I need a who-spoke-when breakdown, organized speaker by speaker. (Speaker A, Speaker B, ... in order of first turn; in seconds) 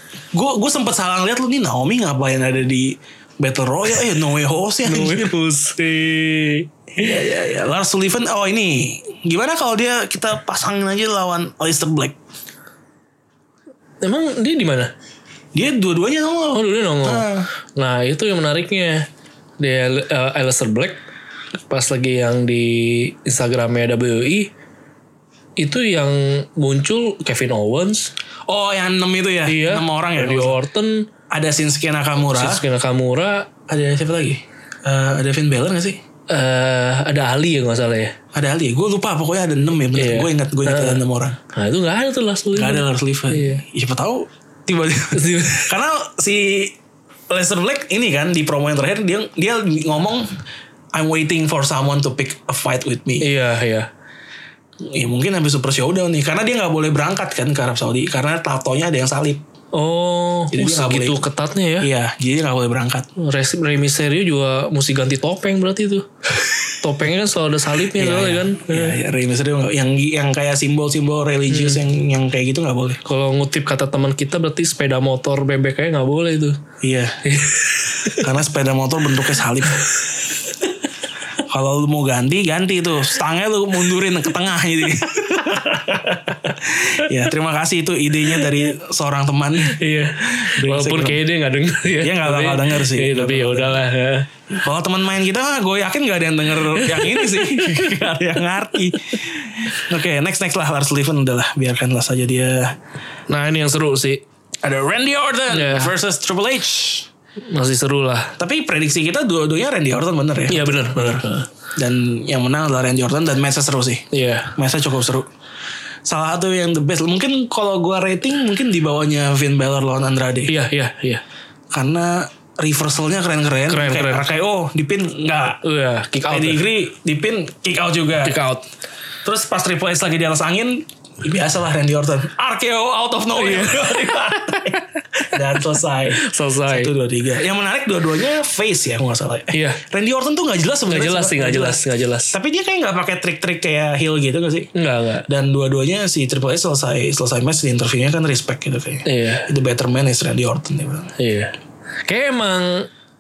Speaker A: 0.3-5.3, 7.0-12.2, 15.5-17.5, 28.5-30.6, 31.3-32.6, 33.7-36.0, 38.3-41.4, 42.5-46.7, 47.3-50.3, 50.9-53.3, 54.8-59.4, 60.5-61.2, 61.8-63.1, 67.9-73.0, 76.8-77.2, 78.2-79.9, 81.5-91.2, 92.0-93.8, 94.5-102.8, 104.6-107.1, 108.4-111.2, 111.8-115.3, 116.0-120.5, 121.7-125.6, 126.3-128.4, 129.2-144.7, 145.3-151.1
Speaker B: 4.8-7.2, 14.0-14.9, 16.5-19.1, 19.6-21.0, 21.7-24.5, 25.6-28.1, 29.4-31.1, 32.3-33.5, 36.3-38.1, 39.9-41.0, 41.5-43.6, 45.1-45.7, 53.2-53.9, 59.7-61.9, 63.2-66.1, 66.6-69.0, 71.5-71.8, 73.0-76.6, 77.2-78.3, 85.9-86.3, 88.3-88.6, 89.6-94.3, 96.7-98.0, 103.3-104.2, 105.5-105.9, 107.5-108.3, 110.5-111.5, 114.1-114.5, 120.5-121.2, 123.7-124.3, 125.6-126.6, 128.2-128.7, 133.3-135.0, 136.2-136.9, 139.5-139.8, 140.8-142.3, 144.7-145.2, 149.0-149.5, 151.2-151.5, 152.0-152.9